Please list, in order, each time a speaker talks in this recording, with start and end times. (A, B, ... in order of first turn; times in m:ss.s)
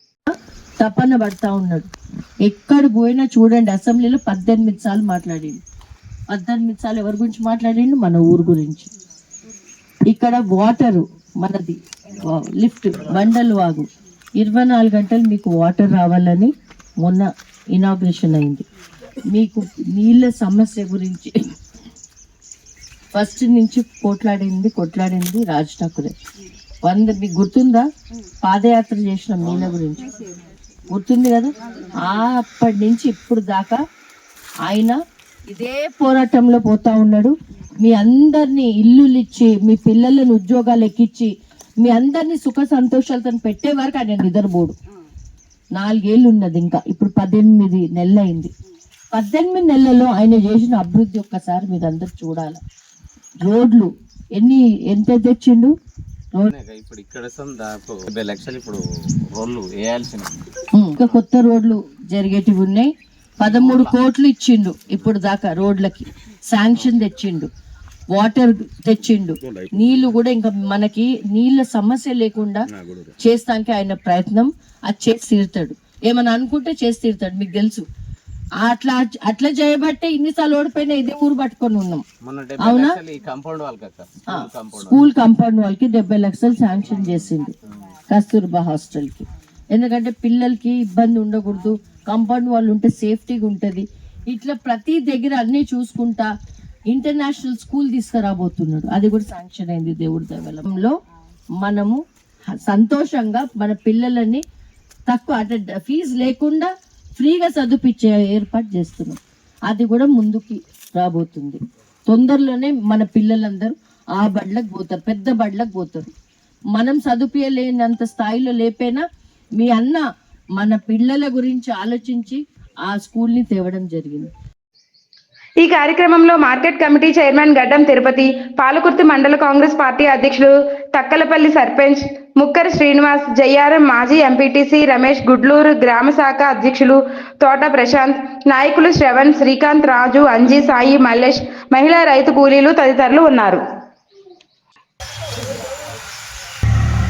0:00.3-0:01.9 A
0:02.5-0:05.6 A
0:06.3-0:08.9 A
0:10.1-0:13.9 A
0:14.4-0:16.5 A
0:17.0-0:18.6 A
0:19.3-0:21.3 A
0:23.2-0:26.1 A
0:26.8-0:27.9 A
0:28.4-0:30.2 A
0:29.4-0:29.8 B
0:30.9-0:33.8 A
0:34.7-0:44.8 A
0:45.8-0:48.5 A
0:49.1-0:52.6 A
0:53.4-0:55.7 A
0:56.5-0:58.8 B
0:59.4-1:00.3 B
1:00.8-1:07.5 A
1:03.4-1:04.0 B
1:08.1-1:12.6 A
1:13.2-1:17.8 A
1:18.6-1:22.0 A
1:22.2-1:25.1 B
1:22.6-1:23.0 A
1:24.3-1:27.5 A
1:28.1-1:36.3 A
1:36.9-1:41.0 A
1:41.6-1:42.0 A
1:42.5-1:44.4 A
1:45.1-1:56.1 A
1:56.8-1:59.0 A
1:59.6-2:00.0 A
2:00.6-2:04.3 A
2:05.6-2:23.6 C